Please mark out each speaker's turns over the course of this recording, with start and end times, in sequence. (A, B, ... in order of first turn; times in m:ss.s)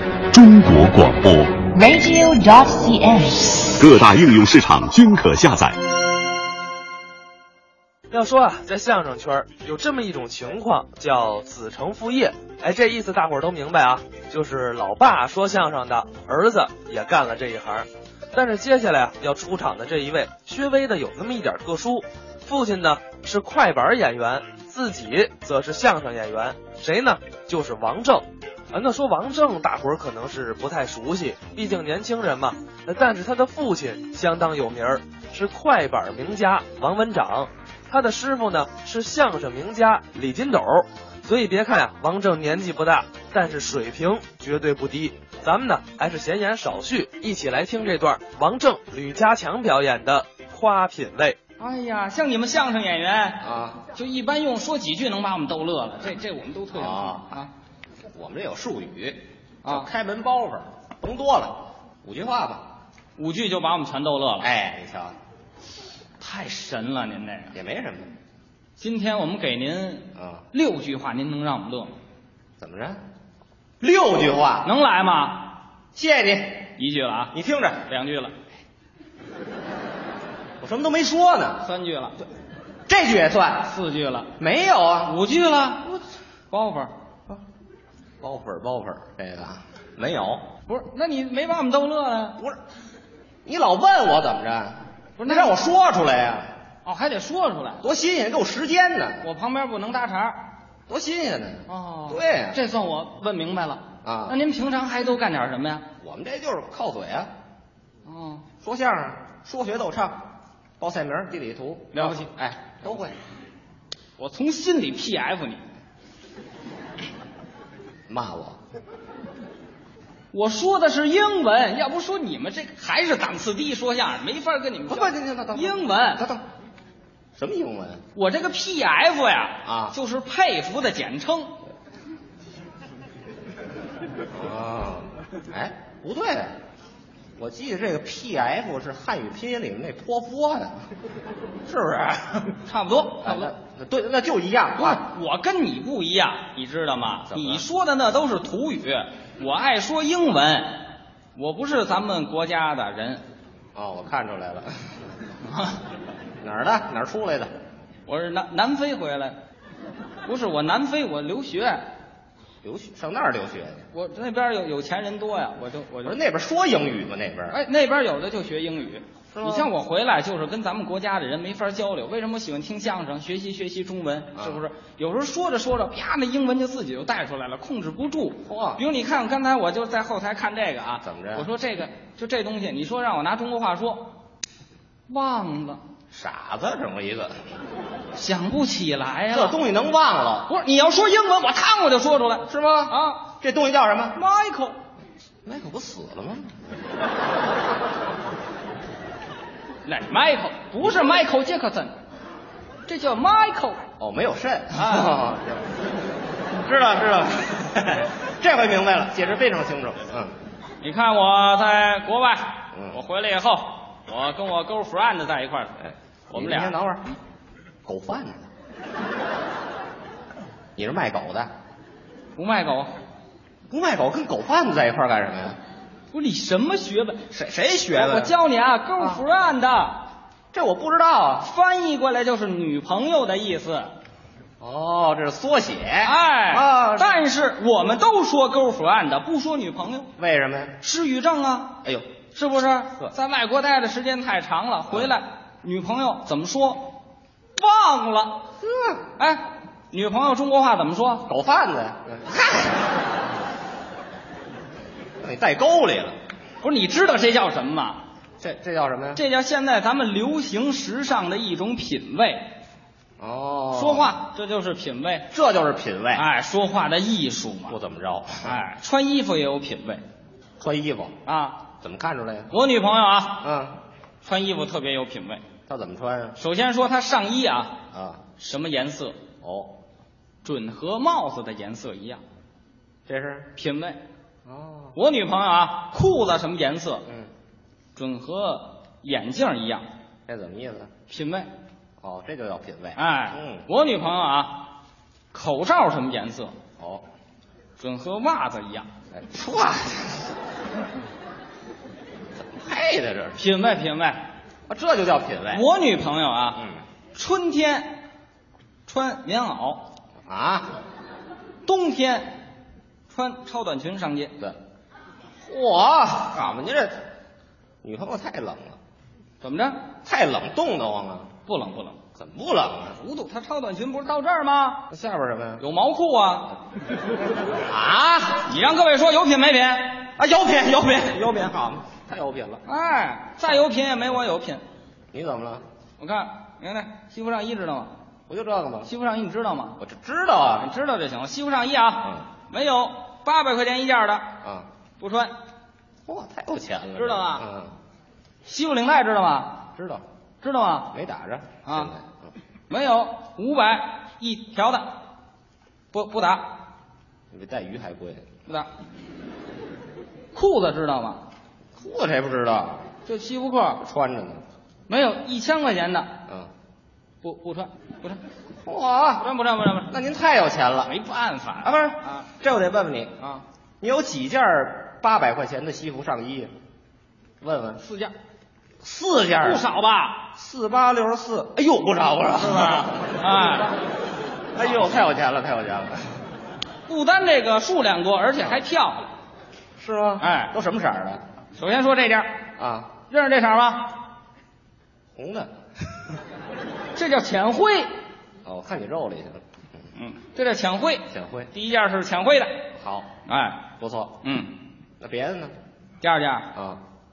0:00.3-0:01.6 A
0:01.7-0:03.7 B
0:03.8-0:05.8 A
0:08.1-0:51.4 C
0:51.6-0:57.5 D
0:53.4-0:53.8 E
0:56.7-0:57.3 E
0:58.1-1:02.7 E
0:59.6-0:59.9 D
1:03.2-1:04.5 D
1:04.4-1:05.2 E
1:06.2-1:07.6 D
1:07.5-1:08.1 E
1:08.8-1:11.9 D
1:10.2-1:10.4 E
1:12.6-1:13.0 E
1:13.8-1:14.7 E
1:14.6-1:15.6 D
1:15.9-1:16.7 E
1:16.8-1:18.4 D
1:17.3-1:17.8 E
1:20.6-1:21.6 E
1:21.6-1:22.2 D
1:22.9-1:23.7 E
1:23.6-1:24.3 D
1:24.4-1:25.2 E
1:25.1-1:25.9 D
1:26.5-1:26.9 D
1:28.2-1:30.5 E
1:30.7-1:32.4 D
1:33.4-1:36.5 E
1:35.2-1:35.6 D
1:36.8-1:37.8 D
1:37.8-1:39.3 E
1:39.2-1:40.5 D
1:40.9-1:42.6 E
1:41.7-1:45.9 D
1:44.0-1:44.4 E
1:46.0-1:47.3 E
1:48.0-1:48.5 D
1:48.6-1:50.3 E
1:50.8-1:53.2 E
1:51.9-1:52.3 D
1:54.2-1:55.6 D
1:58.1-1:58.6 E
2:00.3-2:06.3 D
2:04.9-2:06.4 E
2:07.4-2:08.0 E
2:08.1-2:11.6 D
2:09.6-2:10.0 E
2:14.3-2:16.5 E
2:17.4-2:20.9 E
2:21.7-2:22.6 E
2:22.7-2:23.5 D
2:23.2-2:25.0 E
2:24.8-2:33.2 D
2:27.3-2:27.6 E
2:33.8-2:34.9 E
2:35.5-2:35.8 D
2:36.4-2:37.5 E
2:38.1-2:39.4 D
2:40.2-2:41.9 D
2:42.6-2:43.8 E
2:43.9-2:46.2 D
2:46.0-2:47.6 E
2:47.5-3:04.1 D
2:49.3-2:49.7 E
2:54.4-2:54.6 E
2:58.4-2:58.8 E
3:01.0-3:01.5 E
3:05.1-3:05.8 D
3:06.1-3:07.4 E
3:08.2-3:09.6 D
3:09.3-3:10.5 E
3:10.5-3:13.3 D
3:12.5-3:14.2 E
3:14.1-3:14.8 D
3:15.4-3:16.5 E
3:19.8-3:22.0 D
3:22.9-3:23.8 D
3:24.0-3:25.7 E
3:24.7-3:25.2 D
3:26.5-3:30.3 E
3:30.8-3:36.8 D
3:32.7-3:33.0 E
3:35.8-3:37.1 E
3:37.8-3:38.4 E
3:40.8-3:41.5 E
3:42.4-3:43.0 D
3:43.7-3:45.6 E
3:46.1-3:47.4 D
3:47.3-3:48.4 E
3:47.9-3:50.0 D
3:49.0-3:49.2 E
3:50.5-3:51.5 E
3:51.4-3:53.9 D
3:54.6-3:57.2 E
3:56.0-4:00.1 D
4:00.2-4:00.8 E
4:00.8-4:01.8 D
4:02.3-4:07.0 D
4:07.6-4:08.5 D
4:08.6-4:09.0 E
4:09.2-4:11.3 D
4:11.3-4:13.0 E
4:15.2-4:16.2 E
4:16.6-4:18.0 D
4:18.4-4:19.2 E
4:19.2-4:22.5 D
4:23.2-4:24.2 E
4:23.7-4:25.3 D
4:25.3-4:26.3 E
4:26.1-4:27.8 D
4:27.7-4:28.6 E
4:28.4-4:30.0 D
4:30.6-4:31.2 E
4:31.2-4:31.6 D
4:31.8-4:32.5 E
4:32.5-4:33.4 D
4:33.4-4:33.8 E
4:34.2-4:35.4 D
4:35.7-4:36.4 E
4:36.4-4:37.8 D
4:37.9-4:38.2 E
4:38.4-4:39.2 D
4:39.4-4:39.8 E
4:40.4-4:42.2 D
4:43.1-4:43.5 E
4:43.6-4:44.0 D
4:44.5-4:45.0 E
4:45.0-4:47.1 D
4:48.0-4:49.9 D
4:50.3-4:50.9 E
4:51.1-4:51.5 D
4:52.0-4:53.7 E
4:53.0-4:54.7 D
4:55.3-4:56.6 D
4:56.8-4:57.0 E
4:57.8-4:58.9 D
4:59.1-5:00.3 E
5:02.5-5:03.4 E
5:03.4-5:04.3 D
5:04.7-5:05.6 E
5:05.5-5:08.0 D
5:06.6-5:06.8 E
5:08.9-5:09.9 D
5:10.3-5:10.8 E
5:11.6-5:12.4 D
5:13.1-5:14.4 D
5:15.4-5:17.0 E
5:17.8-5:18.8 E
5:19.4-5:19.8 D
5:20.0-5:21.3 E
5:21.5-5:22.0 D
5:22.2-5:23.0 E
5:23.0-5:24.9 D
5:24.9-5:25.6 E
5:25.6-5:26.6 D
5:27.6-5:28.5 E
5:28.4-5:30.1 D
5:30.1-5:32.6 E
5:32.7-5:34.6 D
5:35.1-5:35.6 E
5:36.0-5:37.9 D
5:38.3-5:38.9 E
5:38.9-5:39.8 D
5:39.8-5:40.7 E
5:40.6-5:44.4 D
5:44.4-5:44.7 E
5:45.0-5:45.4 D
5:46.1-5:47.7 E
5:47.0-5:47.5 D
5:48.5-5:49.7 D
5:49.8-5:50.0 E
5:50.4-5:51.0 D
5:50.9-5:52.3 E
5:51.7-5:51.9 D
5:52.7-5:55.0 D
5:55.9-5:56.6 D
5:57.3-5:58.3 E
6:00.3-6:01.3 D
6:01.8-6:02.9 E
6:03.0-6:03.8 D
6:03.8-6:04.4 E
6:04.9-6:06.2 D
6:07.2-6:08.2 D
6:08.6-6:09.3 E
6:09.2-6:09.9 D
6:09.9-6:10.9 E
6:10.8-6:12.3 D
6:12.4-6:13.1 E
6:13.2-6:13.4 D
6:13.8-6:16.5 E
6:17.4-6:17.8 E
6:17.8-6:18.1 D
6:18.8-6:19.7 E
6:19.4-6:20.3 D
6:20.3-6:23.5 E
6:22.4-6:23.7 D
6:24.6-6:26.2 E
6:26.9-6:29.1 D
6:29.8-6:31.2 E
6:30.2-6:30.6 D
6:31.6-6:32.3 D
6:32.6-6:33.0 E
6:33.1-6:34.0 D
6:35.2-6:35.5 E
6:36.9-6:37.9 D
6:38.4-6:39.4 E
6:40.0-6:42.6 D
6:41.1-6:41.5 E
6:42.8-6:43.1 E
6:43.3-6:43.7 D
6:43.8-6:44.2 E
6:44.2-6:44.6 D
6:45.0-6:45.5 E
6:46.0-6:46.5 D
6:46.5-6:46.8 E